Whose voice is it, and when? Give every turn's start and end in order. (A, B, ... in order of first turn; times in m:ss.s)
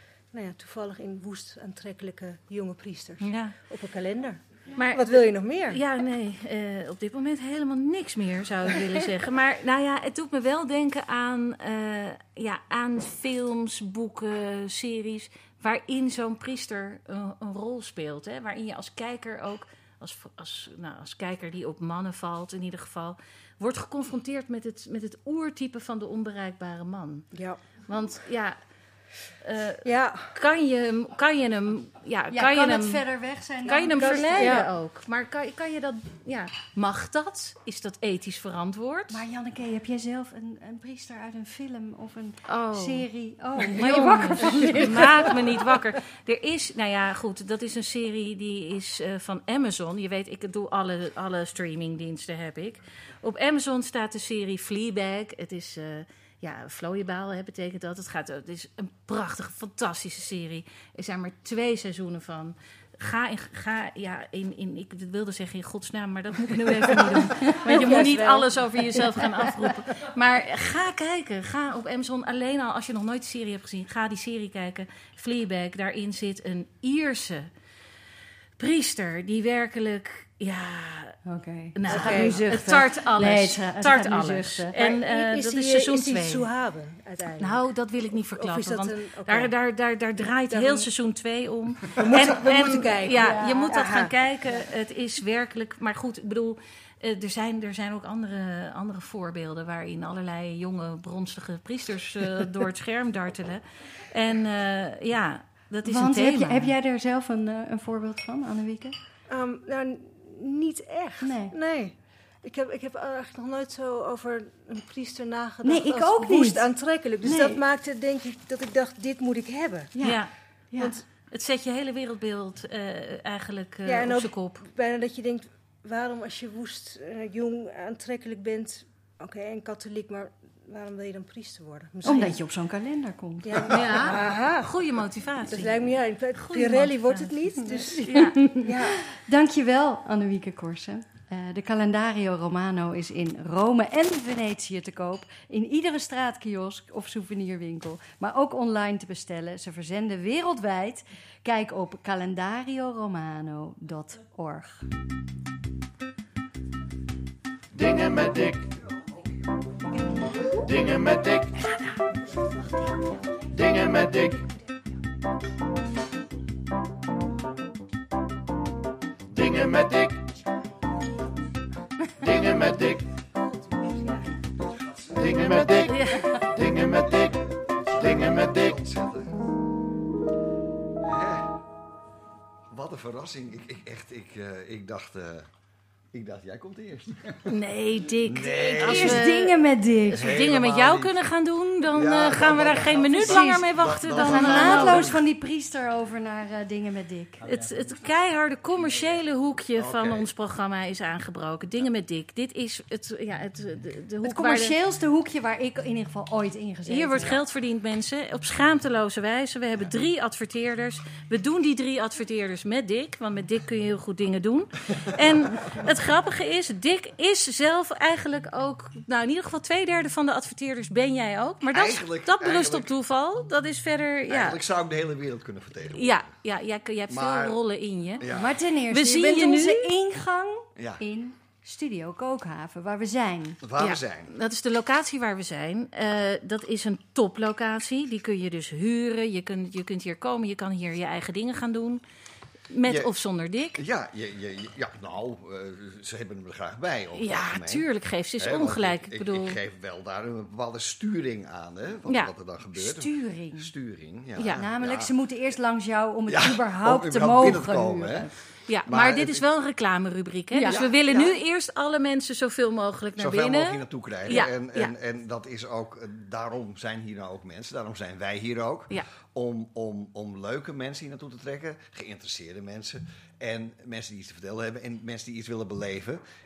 0:00.3-0:05.8 A
0:03.2-0:03.5 B
0:04.8-0:27.3 B
0:27.3-0:27.6 A
0:27.9-0:28.6 B
0:29.4-0:33.0 B
0:29.8-0:30.3 A
0:32.3-0:34.6 C
0:33.6-0:39.2 B
0:33.8-0:34.7 A
0:39.1-0:45.5 C
0:42.5-0:43.0 B
0:43.6-1:17.5 B
0:44.4-0:44.8 A
1:07.1-1:08.4 C
1:07.5-1:08.5 A
1:09.0-1:09.7 C
1:18.6-1:21.2 B
1:21.2-1:24.8 C
1:21.7-1:26.5 B
1:21.9-1:22.4 A
1:24.8-1:29.5 A
1:27.4-1:46.7 B
1:30.5-1:30.9 A
1:32.0-1:34.5 A
1:33.1-1:34.1 C
1:45.8-1:49.0 C
1:49.3-1:59.9 A
1:51.2-1:51.6 C
1:55.6-1:57.6 C
1:59.9-2:01.0 C
2:00.0-2:00.3 B
2:00.8-2:01.0 A
2:01.2-2:04.6 B
2:03.8-2:12.4 A
2:12.0-2:14.2 C
2:13.4-2:14.8 A
2:13.7-2:18.4 B
2:15.5-2:19.0 A
2:18.1-2:34.9 C
2:37.7-2:38.7 D
2:40.6-2:41.6 D
2:43.5-2:44.4 D
2:49.3-2:50.2 D
2:52.2-2:53.1 D
2:55.2-2:58.8 D
2:55.8-2:56.4 B
2:58.1-2:59.3 E
3:01.0-3:01.5 E
3:02.7-3:05.5 E
3:06.1-3:07.6 E
3:07.5-3:09.6 B
3:08.2-3:09.3 E
3:08.5-3:10.4 C
3:10.1-3:15.2 B
3:10.1-3:11.2 E
3:11.9-3:15.2 E
3:13.2-3:17.4 C
3:17.4-3:18.0 E
3:17.4-3:24.7 B
3:18.8-3:19.1 E
3:19.8-3:20.2 E
3:24.2-3:27.4 C
3:26.9-3:44.6 B
3:41.6-3:42.9 E
3:44.3-3:46.2 E
3:45.9-3:48.2 B
3:47.1-3:47.6 E
3:48.2-3:48.6 E
3:48.3-3:53.6 C
3:48.9-3:49.9 B
3:50.8-3:51.0 E
3:53.6-3:54.3 E
3:53.8-4:02.0 B
4:02.7-4:03.8 B
4:02.8-4:03.1 E
4:03.8-4:15.1 E
4:07.1-4:09.6 B
4:12.8-4:13.7 C
4:14.4-4:14.6 B
4:14.5-4:18.3 C
4:16.3-4:18.3 E
4:18.7-4:24.9 B
4:18.9-4:19.4 E
4:20.5-4:20.9 C
4:20.6-4:21.4 E
4:23.2-4:36.2 E